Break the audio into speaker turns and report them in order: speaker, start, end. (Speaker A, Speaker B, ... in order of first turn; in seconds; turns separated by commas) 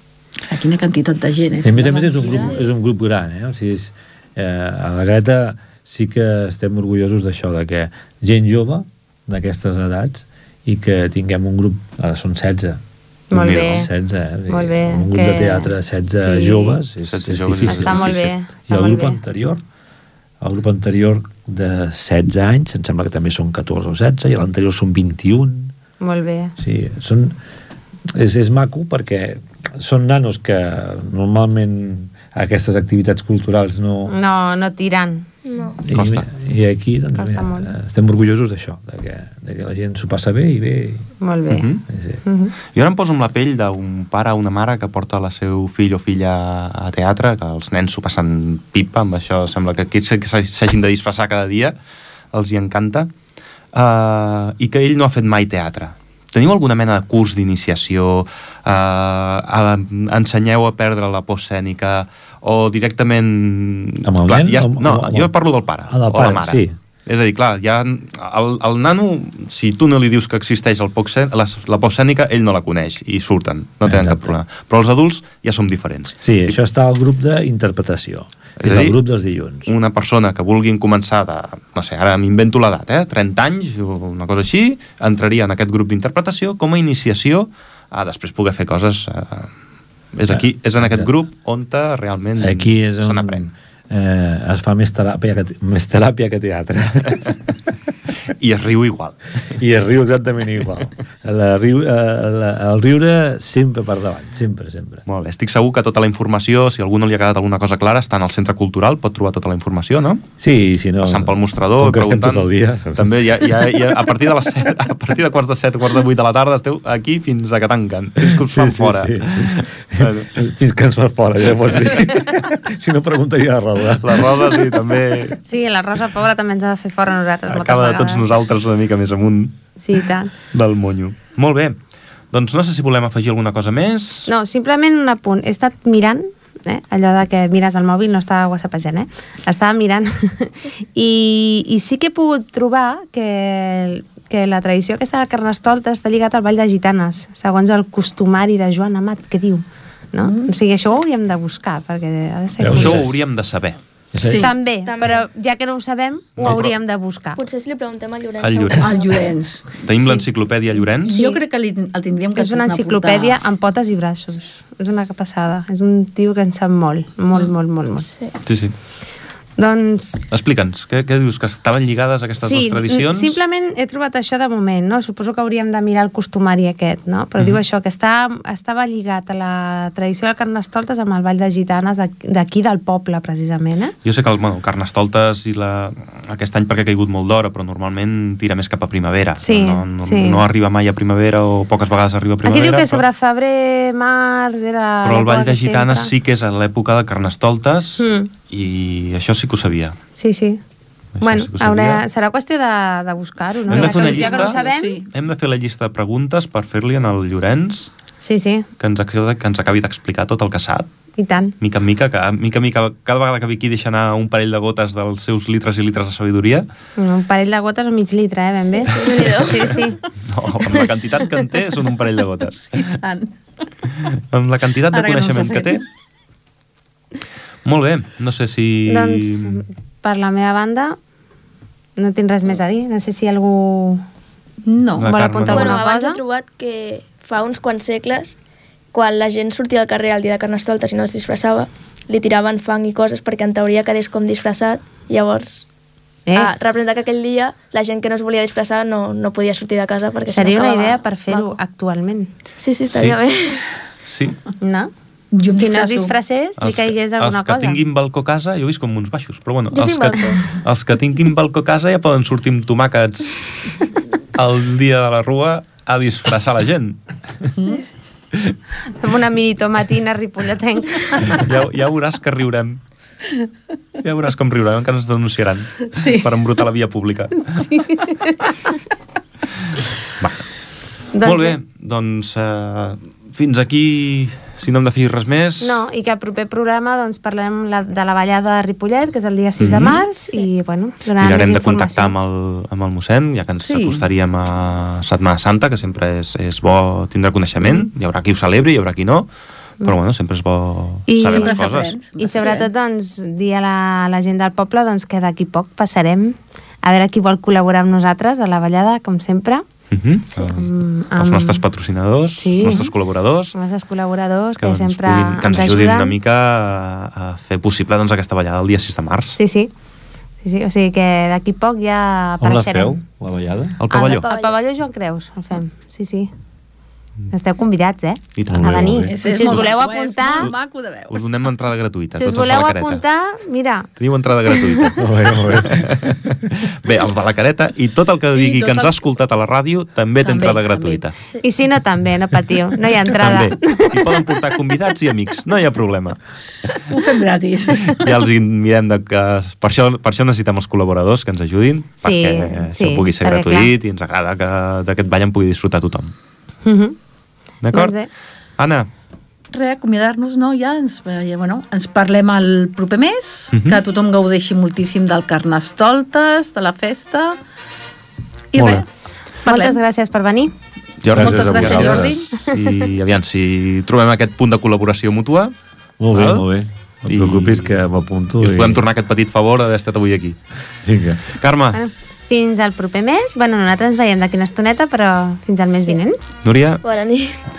Speaker A: 0.4-2.6, Speaker B: 1.6-12.8, Speaker C: 13.3-13.9, Speaker D: 13.3-13.9, Speaker B: 13.4-19.6, Speaker C: 14.5-16.8, Speaker D: 17.0-18.4, Speaker C: 17.6-19.2, Speaker B: 20.4-25.7, Speaker C: 26.0-26.5, Speaker B: 26.6-27.3, Speaker B: 28.1-34.1, Speaker C: 34.1-35.3, Speaker E: 35.5-35.8, Speaker B: 35.8-41.1, Speaker D: 35.9-36.2, Speaker C: 37.1-37.7, Speaker C: 41.2-41.7, Speaker D: 41.5-41.8, Speaker B: 41.9-42.2, Speaker C: 42.2-42.5, Speaker D: 42.7-51.7, Speaker D: 52.3-53.1, Speaker D: 53.7-76.5, Speaker B: 64.0-65.3, Speaker B: 65.9-66.8, Speaker B: 73.8-74.3, Speaker B: 76.2-79.7, Speaker D: 78.6-79.0, Speaker D: 79.7-89.5, Speaker D: 90.1-93.5, Speaker B: 90.3-91.1, Speaker B: 92.4-97.4, Speaker D: 98.4-99.3, Speaker B: 99.4-105.0, Speaker D: 105.1-110.2, Speaker B: 110.4-113.7, Speaker D: 111.0-120.3, Speaker B: 118.2-124.6, Speaker D: 124.0-125.4, Speaker C: 125.4-128.3, Speaker D: 127.5-129.6, Speaker C: 129.8-130.3, Speaker D: 130.5-131.8, Speaker D: 132.3-134.3, Speaker C: 134.3-153.1, Speaker A: 150.2-150.6, Speaker B: 152.6-153.1, Speaker D: 152.7-153.8, Speaker B: 154.1-154.5, Speaker A: 154.2-154.5, Speaker C: 154.4-157.4, Speaker E: 154.8-155.2, Speaker D: 156.4-156.7, Speaker E: 157.4-159.4, Speaker D: 158.4-158.9, Speaker A: 158.8-160.2, Speaker D: 159.8-161.2, Speaker A: 160.8-163.4, Speaker C: 161.1-161.4, Speaker C: 162.4-168.1, Speaker E: 168.1-168.3, Speaker D: 168.4-168.7, Speaker C: 169.6-170.2, Speaker D: 170.3-173.4, Speaker C: 172.4-183.9, Speaker D: 184.0-193.0, Speaker C: 189.4-190.4, Speaker C: 192.4-196.1, Speaker D: 195.0-200.0, Speaker C: 198.0-198.3, Speaker C: 200.2-200.6, Speaker D: 201.2-202.0, Speaker C: 201.2-205.0, Speaker A: 203.7-205.1, Speaker D: 203.7-207.9, Speaker C: 208.2-208.7, Speaker D: 208.8-210.9, Speaker C: 211.2-211.6, Speaker D: 211.6-216.7, Speaker C: 217.0-220.0, Speaker E: 218.7-219.9, Speaker D: 220.3-223.0, Speaker A: 222.6-223.3, Speaker D: 224.1-225.8, Speaker A: 224.9-225.8, Speaker D: 227.7-229.6, Speaker C: 228.9-231.0, Speaker C: 232.0-234.0, Speaker A: 234.7-235.1, Speaker D: 235.0-235.8, Speaker C: 235.0-236.2, Speaker E: 235.5-238.4, Speaker E: 238.9-245.7, Speaker C: 246.3-246.5, Speaker E: 246.3-251.6, Speaker C: 250.3-252.3, Speaker E: 252.6-253.6, Speaker D: 252.9-253.2, Speaker D: 254.1-254.4, Speaker C: 254.6-254.9, Speaker A: 255.3-256.1, Speaker C: 255.5-257.8, Speaker D: 256.6-263.4, Speaker E: 259.7-260.4, Speaker D: 264.4-267.0, Speaker A: 267.6-267.9, Speaker C: 269.0-271.5, Speaker D: 271.2-272.8, Speaker D: 274.0-277.6, Speaker A: 275.9-276.3, Speaker A: 277.5-278.3, Speaker D: 280.2-280.5, Speaker C: 281.1-281.6, Speaker D: 281.2-285.8, Speaker C: 285.6-292.1, Speaker D: 289.6-290.0, Speaker D: 291.2-299.3, Speaker A: 293.6-294.1, Speaker D: 299.8-302.0, Speaker C: 301.1-301.6, Speaker A: 301.2-302.7, Speaker C: 302.2-309.6, Speaker D: 309.9-313.6, Speaker C: 310.3-311.6, Speaker C: 312.4-312.9, Speaker C: 313.5-316.1, Speaker D: 314.6-319.4, Speaker C: 319.4-319.7, Speaker C: 320.4-323.0, Speaker B: 322.4-323.8, Speaker D: 323.8-324.3, Speaker C: 323.9-326.3, Speaker E: 324.1-324.6, Speaker C: 327.3-330.5, Speaker D: 328.4-329.7, Speaker B: 328.5-329.2, Speaker A: 329.1-331.2, Speaker D: 331.1-333.0, Speaker C: 332.1-333.9, Speaker D: 334.0-341.1, Speaker C: 334.5-334.9, Speaker B: 335.0-336.3, Speaker A: 338.4-338.9, Speaker A: 340.2-341.1, Speaker C: 341.4-344.1, Speaker D: 343.2-346.8, Speaker A: 346.9-348.1, Speaker D: 347.8-356.1, Speaker C: 352.0-353.7, Speaker C: 356.6-357.0, Speaker D: 357.6-358.0, Speaker C: 357.7-358.1, Speaker D: 358.6-358.9, Speaker A: 359.5-367.4, Speaker D: 363.5-363.8, Speaker A: 368.5-368.9, Speaker D: 368.6-368.9, Speaker A: 369.4-369.8, Speaker C: 369.4-370.5, Speaker D: 371.0-375.5, Speaker B: 371.1-372.2, Speaker C: 371.2-372.8, Speaker A: 371.6-372.1, Speaker B: 376.0-378.9, Speaker D: 376.1-376.5, Speaker D: 377.0-377.8, Speaker D: 378.4-380.4, Speaker B: 380.9-381.4, Speaker D: 381.3-381.8, Speaker C: 381.7-386.2, Speaker D: 386.4-386.8, Speaker E: 386.8-387.4